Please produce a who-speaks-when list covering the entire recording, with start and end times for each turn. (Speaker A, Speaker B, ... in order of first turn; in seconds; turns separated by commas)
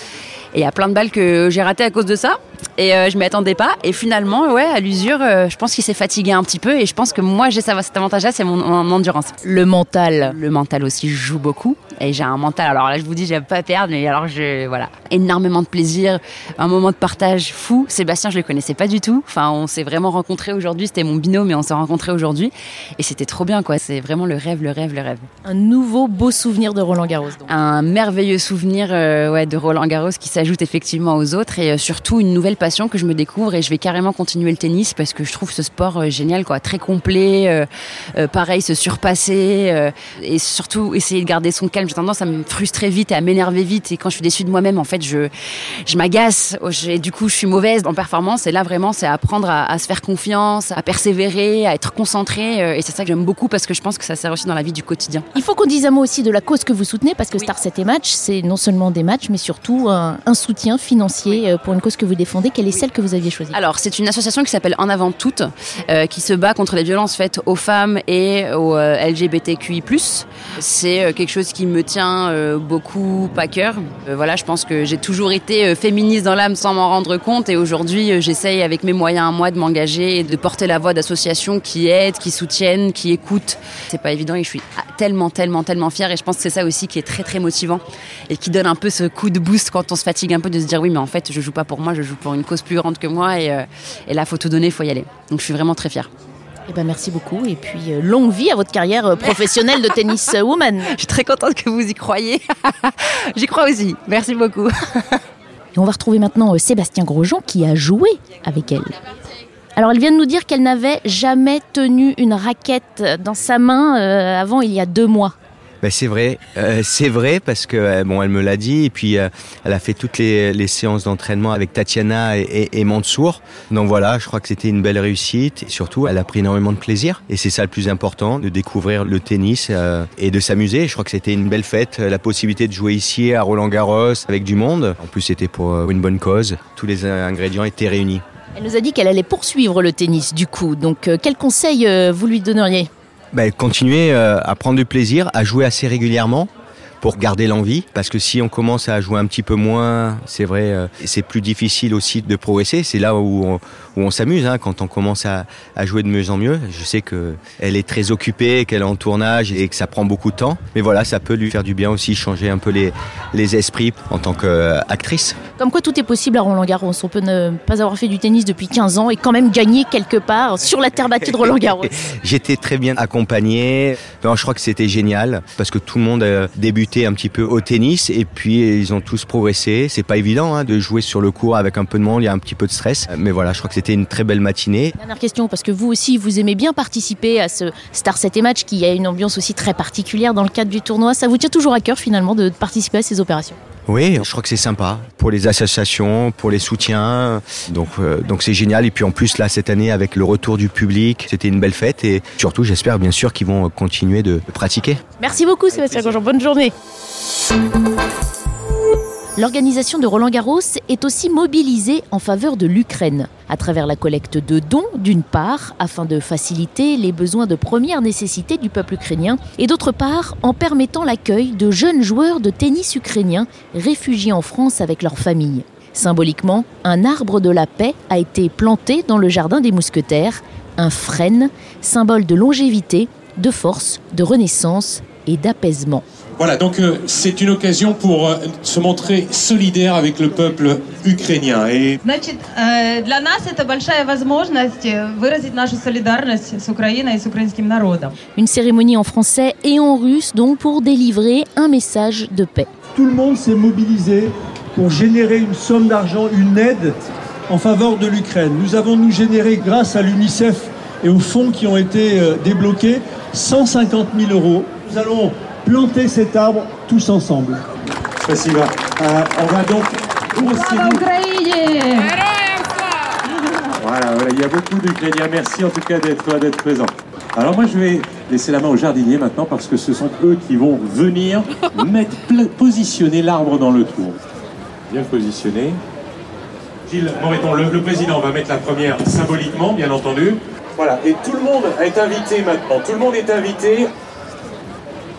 Speaker A: 0.5-9.4, Speaker B: 9.4-10.3, Speaker A: 10.2-25.3, Speaker B: 25.4-27.5, Speaker A: 27.5-45.3, Speaker A: 45.9-55.3, Speaker B: 55.3-63.6, Speaker A: 63.5-96.1, Speaker B: 96.7-100.9, Speaker A: 99.4-100.3, Speaker A: 100.8-105.2, Speaker B: 105.8-109.0, Speaker B: 109.8-115.3, Speaker C: 115.8-138.2, Speaker B: 138.6-142.9, Speaker C: 143.3-146.5, Speaker C: 147.0-165.4, Speaker B: 165.6-171.9, Speaker C: 171.4-184.9, Speaker B: 185.0-193.6, Speaker C: 193.9-205.0, Speaker B: 205.2-206.7, Speaker B: 209.3-236.1, Speaker D: 236.4-241.9, Speaker E: 242.0-248.2, Speaker B: 248.3-252.7, Speaker F: 252.9-256.9, Speaker F: 257.5-267.6, Speaker D: 268.2-271.1, Speaker E: 270.4-272.1, Speaker D: 273.8-284.2, Speaker D: 284.9-285.8, Speaker D: 286.9-293.9